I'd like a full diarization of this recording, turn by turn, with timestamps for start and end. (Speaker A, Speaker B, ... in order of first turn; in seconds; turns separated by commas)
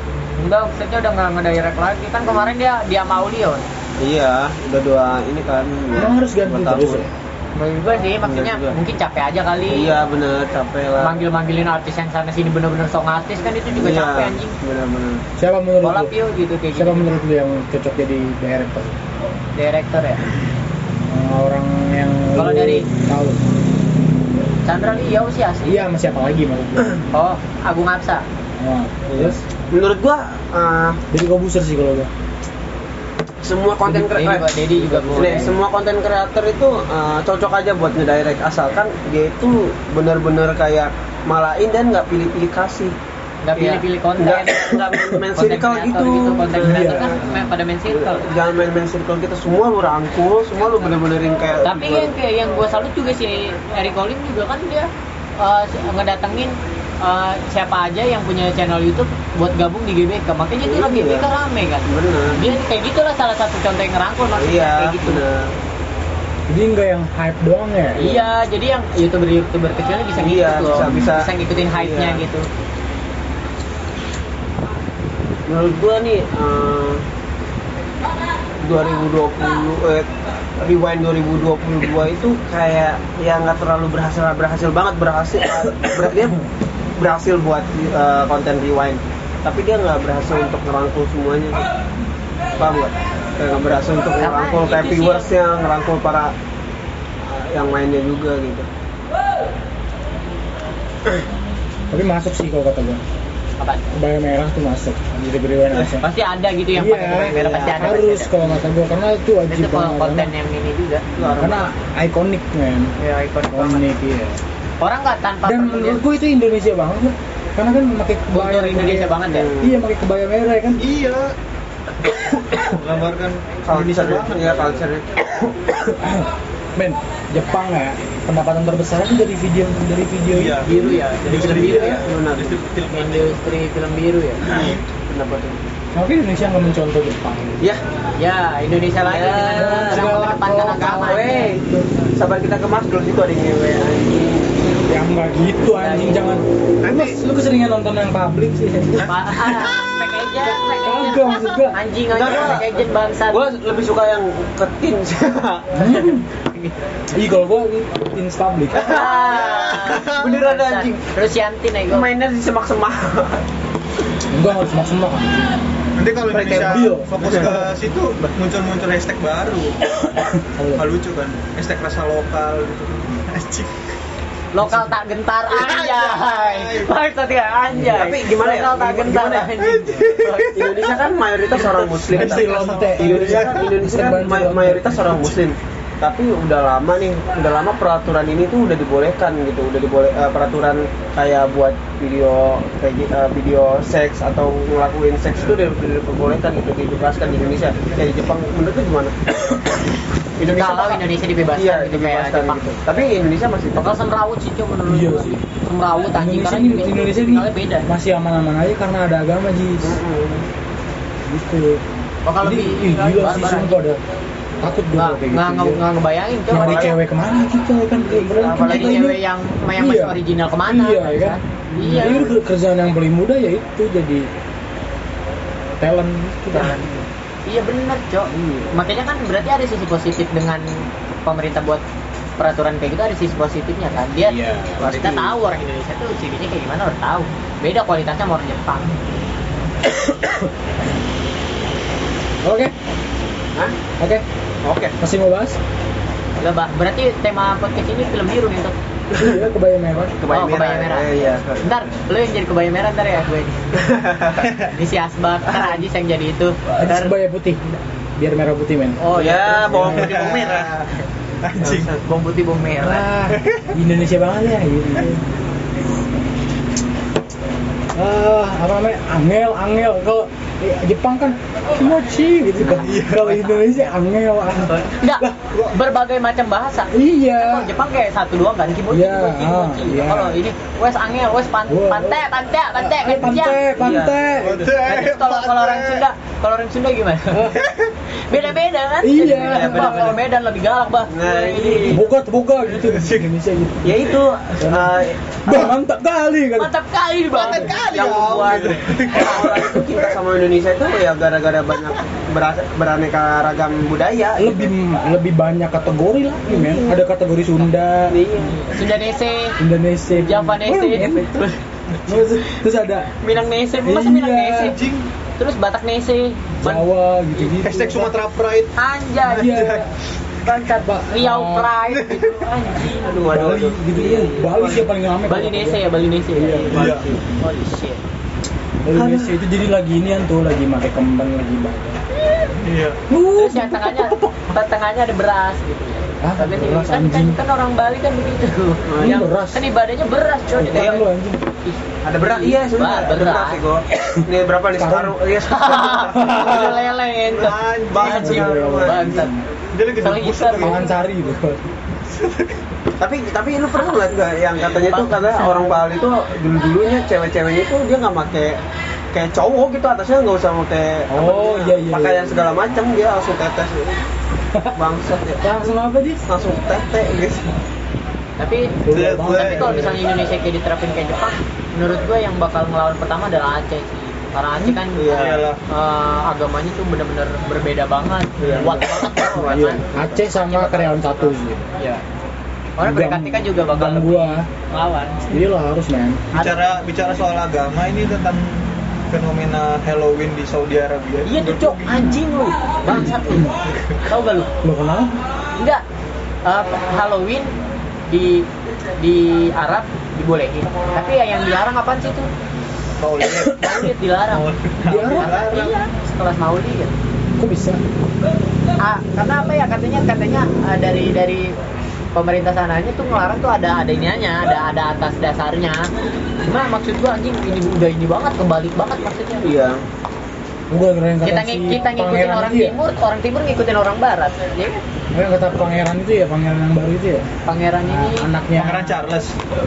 Speaker A: 0.4-3.6, Speaker B: 4.0-7.0, Speaker C: 6.0-7.1, Speaker A: 7.5-9.9, Speaker B: 8.2-8.8, Speaker B: 9.7-11.2, Speaker A: 11.0-14.6, Speaker B: 13.8-15.2, Speaker C: 15.4-16.1, Speaker A: 15.8-17.2, Speaker C: 16.7-19.0, Speaker A: 19.6-20.3, Speaker C: 21.1-23.4, Speaker A: 22.4-22.9, Speaker A: 24.6-25.9, Speaker C: 25.6-27.0, Speaker A: 27.1-28.2, Speaker C: 28.6-29.4, Speaker B: 29.1-31.0, Speaker C: 31.1-32.1, Speaker B: 33.4-34.5, Speaker A: 34.0-35.6, Speaker C: 34.8-35.5, Speaker B: 35.1-43.0, Speaker A: 43.4-48.2, Speaker B: 43.5-47.3, Speaker C: 46.6-47.4, Speaker B: 47.9-52.1, Speaker A: 51.6-65.2, Speaker B: 60.6-61.3, Speaker B: 61.9-62.6, Speaker B: 64.4-65.5, Speaker C: 66.5-68.1, Speaker A: 68.0-72.5, Speaker B: 68.0-68.3, Speaker B: 70.2-72.2, Speaker B: 75.5-77.0, Speaker B: 78.6-86.4, Speaker B: 87.0-91.7, Speaker B: 92.6-96.3, Speaker A: 94.2-95.3, Speaker B: 97.2-98.7, Speaker C: 101.9-103.0, Speaker A: 103.6-103.9, Speaker C: 103.9-106.1, Speaker A: 106.0-108.3, Speaker C: 106.8-110.3, Speaker B: 107.1-107.9, Speaker A: 109.5-111.1, Speaker B: 111.1-111.7, Speaker C: 111.3-112.9, Speaker A: 113.0-113.9, Speaker C: 113.5-114.4, Speaker A: 114.8-116.0, Speaker C: 115.5-120.8, Speaker A: 118.3-119.5, Speaker B: 119.3-119.8, Speaker D: 120.8-121.3, Speaker D: 122.5-124.8, Speaker B: 123.6-125.1, Speaker C: 125.4-130.7, Speaker D: 130.3-133.4, Speaker A: 130.6-132.1, Speaker B: 131.3-132.6, Speaker A: 132.9-134.5, Speaker B: 134.5-135.6, Speaker D: 134.5-134.8, Speaker C: 135.9-137.6, Speaker A: 138.2-141.5, Speaker B: 139.0-144.6, Speaker C: 139.5-141.8, Speaker C: 144.9-149.7, Speaker A: 145.7-146.4, Speaker A: 149.1-153.4, Speaker C: 150.8-151.8, Speaker B: 152.1-152.7, Speaker B: 153.3-155.7, Speaker C: 155.8-156.3, Speaker C: 157.1-158.9, Speaker B: 158.7-161.1, Speaker A: 158.7-162.1, Speaker D: 159.3-160.1, Speaker B: 161.9-163.4, Speaker C: 164.3-165.6, Speaker D: 166.0-169.9, Speaker B: 166.3-167.5, Speaker C: 166.4-167.7, Speaker C: 170.3-170.9, Speaker D: 170.8-173.8, Speaker A: 174.5-180.8, Speaker D: 175.5-176.9, Speaker B: 177.9-179.6, Speaker D: 179.6-180.8, Speaker B: 180.5-199.2, Speaker D: 181.8-183.8, Speaker C: 182.1-185.4, Speaker B: 200.4-204.0, Speaker A: 200.4-202.8, Speaker A: 203.8-207.9, Speaker C: 204.9-205.4, Speaker C: 206.1-210.0, Speaker B: 209.8-210.5, Speaker C: 211.3-211.8, Speaker A: 212.3-213.8, Speaker C: 212.4-214.0, Speaker C: 214.6-215.8, Speaker A: 215.0-217.0, Speaker C: 216.5-219.2, Speaker B: 216.6-217.0, Speaker B: 218.1-219.2, Speaker A: 218.5-222.3, Speaker C: 219.8-224.3, Speaker B: 221.8-222.4, Speaker C: 225.8-226.8, Speaker A: 226.5-226.9, Speaker A: 227.5-231.8, Speaker B: 228.3-228.7, Speaker A: 232.4-239.0, Speaker C: 234.3-234.9, Speaker B: 234.8-235.4, Speaker C: 240.0-240.5, Speaker C: 242.4-242.7, Speaker B: 244.6-244.9, Speaker C: 245.0-245.6, Speaker A: 246.4-248.7, Speaker B: 249.1-249.4, Speaker C: 249.2-250.1, Speaker B: 250.2-251.7, Speaker A: 250.3-251.1, Speaker A: 251.6-253.6, Speaker B: 253.8-254.5, Speaker D: 254.4-254.7, Speaker A: 254.7-257.1, Speaker B: 255.5-255.8, Speaker C: 256.7-259.0, Speaker A: 259.0-260.5, Speaker B: 259.1-260.9, Speaker C: 259.7-260.0, Speaker D: 259.9-260.7, Speaker D: 261.4-261.9, Speaker B: 261.6-262.0, Speaker A: 262.0-263.1, Speaker C: 262.8-265.2, Speaker D: 263.3-263.8, Speaker C: 267.9-275.4, Speaker A: 272.7-273.9, Speaker D: 272.7-273.3, Speaker A: 274.6-283.6, Speaker C: 276.9-277.7, Speaker C: 278.9-280.4, Speaker C: 281.7-282.2, Speaker C: 282.8-284.7, Speaker B: 283.3-284.5, Speaker D: 284.4-286.0, Speaker A: 284.8-287.6, Speaker C: 287.3-287.6, Speaker D: 287.6-287.9, Speaker A: 288.3-292.0, Speaker C: 289.0-290.1, Speaker B: 289.5-290.2, Speaker B: 291.1-292.0, Speaker C: 291.8-296.7, Speaker D: 292.7-293.3, Speaker B: 293.8-295.7, Speaker A: 296.6-297.8, Speaker D: 297.3-300.1, Speaker B: 297.7-304.7, Speaker C: 304.4-308.1, Speaker B: 306.5-307.0, Speaker B: 308.1-308.6, Speaker A: 308.4-309.6, Speaker C: 309.6-311.4, Speaker A: 310.1-311.6, Speaker C: 312.1-313.1, Speaker A: 313.2-314.8, Speaker C: 313.8-314.8, Speaker D: 314.6-315.1, Speaker A: 315.4-316.8, Speaker C: 316.6-318.2, Speaker D: 317.6-318.7, Speaker A: 318.8-319.7, Speaker C: 319.2-319.9, Speaker D: 319.3-319.8, Speaker A: 320.4-323.2, Speaker C: 320.8-321.8, Speaker D: 321.9-322.4, Speaker B: 323.0-324.9, Speaker C: 323.3-325.8, Speaker A: 325.3-326.7, Speaker C: 326.4-326.8, Speaker B: 326.5-327.2, Speaker D: 326.7-327.1, Speaker A: 327.4-328.0, Speaker C: 328.8-332.0, Speaker B: 328.9-329.3, Speaker D: 332.6-333.0, Speaker C: 333.1-334.3, Speaker A: 333.4-341.1, Speaker C: 336.2-337.4, Speaker B: 338.9-339.3, Speaker C: 339.0-339.6, Speaker C: 340.6-341.4, Speaker A: 341.6-343.6, Speaker B: 342.0-346.9, Speaker C: 343.9-345.2, Speaker A: 345.4-349.3, Speaker C: 346.1-346.6, Speaker D: 347.4-348.2, Speaker B: 347.4-349.3, Speaker C: 348.1-349.4, Speaker D: 349.7-350.9, Speaker A: 349.9-350.9, Speaker C: 350.6-351.7, Speaker D: 352.1-352.6, Speaker B: 353.0-358.6, Speaker A: 354.7-355.8, Speaker B: 359.1-364.1, Speaker C: 361.1-362.6, Speaker B: 364.7-365.5, Speaker C: 365.4-366.3, Speaker B: 366.3-367.6, Speaker A: 368.4-382.0, Speaker C: 368.8-369.9, Speaker D: 368.9-370.0, Speaker B: 374.9-375.5, Speaker D: 375.1-375.6, Speaker B: 378.4-380.2, Speaker C: 379.2-381.7, Speaker A: 382.8-385.2, Speaker C: 382.8-384.4, Speaker C: 385.3-386.2, Speaker A: 386.3-386.8, Speaker D: 386.3-392.2, Speaker A: 391.2-393.5, Speaker C: 392.9-393.5, Speaker A: 394.1-394.5, Speaker C: 394.6-395.2, Speaker A: 395.6-395.8, Speaker A: 396.4-397.5, Speaker A: 398.1-402.3, Speaker A: 403.0-406.9, Speaker C: 403.4-403.8, Speaker D: 404.3-405.8, Speaker C: 404.9-405.4, Speaker C: 407.4-407.8, Speaker A: 408.8-411.6, Speaker A: 412.1-415.9, Speaker A: 416.5-419.5, Speaker B: 419.4-419.8, Speaker C: 420.7-422.8, Speaker A: 421.2-424.8, Speaker C: 425.1-427.3, Speaker A: 427.5-428.3, Speaker C: 427.8-429.0, Speaker D: 428.6-429.4